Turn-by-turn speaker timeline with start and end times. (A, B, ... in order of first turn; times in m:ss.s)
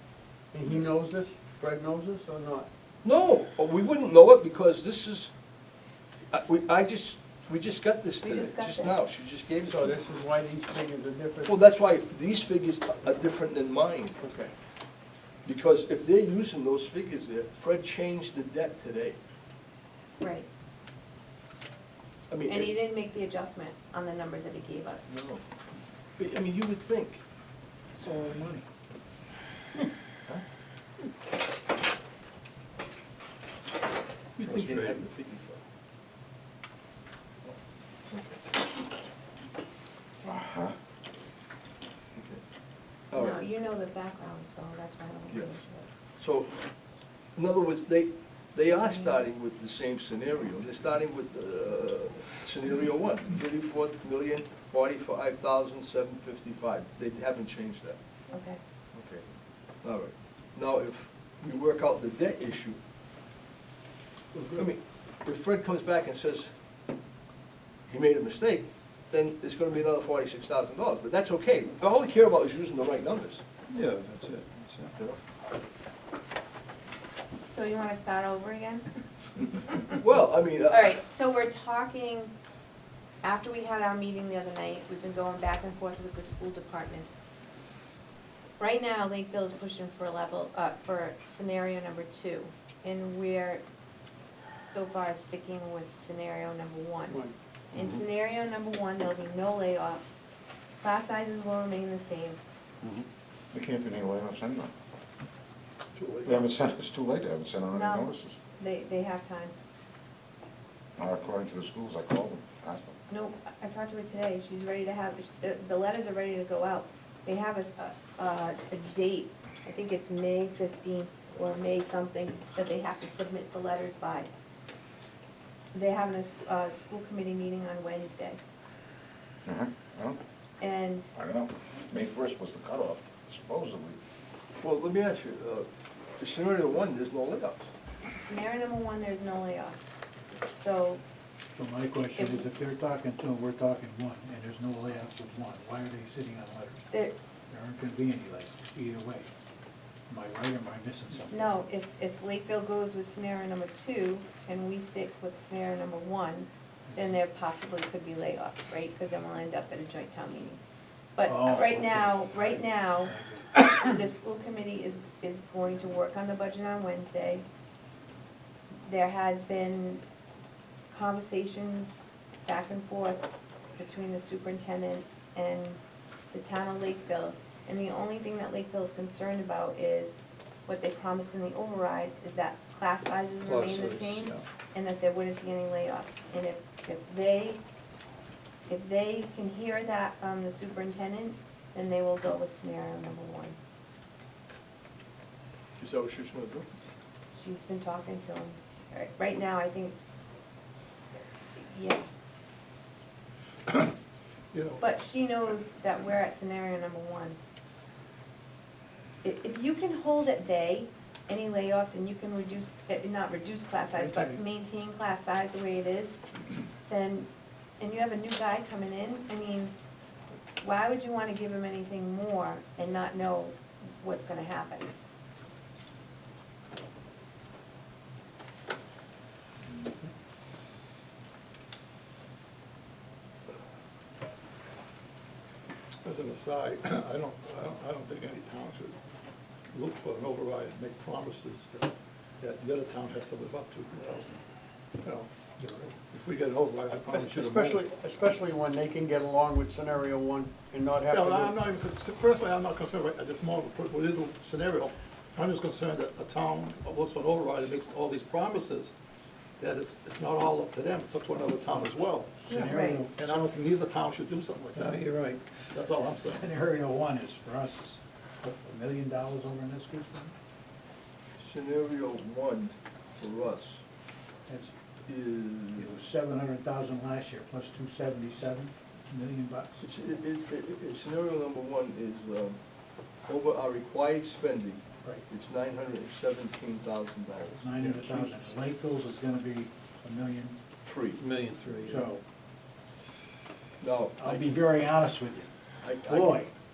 0:00.5-0:02.7 A
0:03.0-0:05.3 B
0:06.3-0:10.0 B
0:08.2-0:09.1 C
0:09.6-0:11.6 A
0:11.5-0:14.2 B
0:14.2-0:14.5 A
0:15.4-0:19.2 B
0:20.2-0:20.5 C
0:22.3-0:22.7 B
0:22.5-0:25.1 C
0:25.1-0:25.4 B
0:26.2-0:27.2 B
0:28.0-0:28.6 D
0:34.4-0:35.6 B
0:34.4-0:34.9 E
0:38.1-0:38.4 B
0:40.3-0:40.8 F
0:42.2-0:42.4 B
0:43.1-0:43.4 B
0:43.1-0:45.9 C
0:46.2-0:46.6 B
0:47.4-0:58.0 B
0:48.8-0:49.2 C
0:58.3-0:58.6 C
0:59.0-0:59.2 B
0:59.8-1:02.8 B
1:04.6-1:06.5 B
1:07.9-1:13.4 B
1:13.7-1:14.9 G
1:17.5-1:18.9 C
1:19.5-1:20.0 C
1:20.0-1:20.9 B
1:20.7-1:22.3 C
1:23.2-1:27.1 C
1:28.6-1:33.6 C
1:34.6-1:40.3 C
1:40.8-1:42.4 C
1:43.5-1:44.7 F
1:46.0-1:46.4 E
1:46.2-1:48.4 F
1:47.7-1:49.5 C
1:51.0-1:53.0 F
1:53.1-2:04.3 C
2:05.7-2:08.4 C
2:09.5-2:10.2 F
2:10.6-2:11.1 C
2:11.2-2:14.0 F
2:14.6-2:15.7 B
2:16.2-2:17.7 B
2:18.1-2:19.8 C
2:20.5-2:21.0 C
2:21.6-2:26.8 D
2:22.2-2:22.4 C
2:27.5-2:29.3 D
2:30.1-2:31.4 D
2:31.3-2:40.6 C
2:36.9-2:37.2 D
2:41.2-2:47.4 C
2:41.2-2:43.5 D
2:48.8-2:50.0 C
2:50.9-2:53.3 C
2:53.8-2:55.8 C
2:56.3-3:07.6 C
3:03.5-3:04.3 G
3:08.7-3:13.6 C
3:15.8-3:16.7 B
3:17.3-3:20.0 C
3:21.1-3:22.0 C
3:23.7-3:23.9 E
3:24.5-3:24.9 E
3:24.8-3:27.4 C
3:29.2-3:36.2 C
3:33.9-3:34.4 D
3:36.9-3:37.3 C
3:37.8-3:39.7 C
3:40.6-3:44.9 C
3:56.0-3:59.0 E
3:59.7-4:04.4 E
4:05.0-4:05.3 E
4:05.6-4:05.9 D
4:06.1-4:07.8 E
4:07.1-4:11.6 A
4:11.1-4:18.9 E
4:19.6-4:22.4 E
4:21.7-4:23.4 D
4:22.5-4:23.1 C
4:23.1-4:25.1 E
4:24.8-4:25.4 G
4:25.7-4:26.5 E
4:26.2-4:30.3 D
4:31.4-4:33.8 B
4:35.1-4:36.0 B
4:35.8-4:39.9 D
4:39.8-4:42.6 B
4:43.3-4:48.4 B
4:47.6-4:50.6 D
4:50.8-4:51.2 B
4:51.2-4:52.1 G
4:51.8-4:52.2 D
4:53.8-4:54.6 B
4:54.2-4:55.5 D
4:55.8-4:56.4 B
4:56.0-4:56.5 D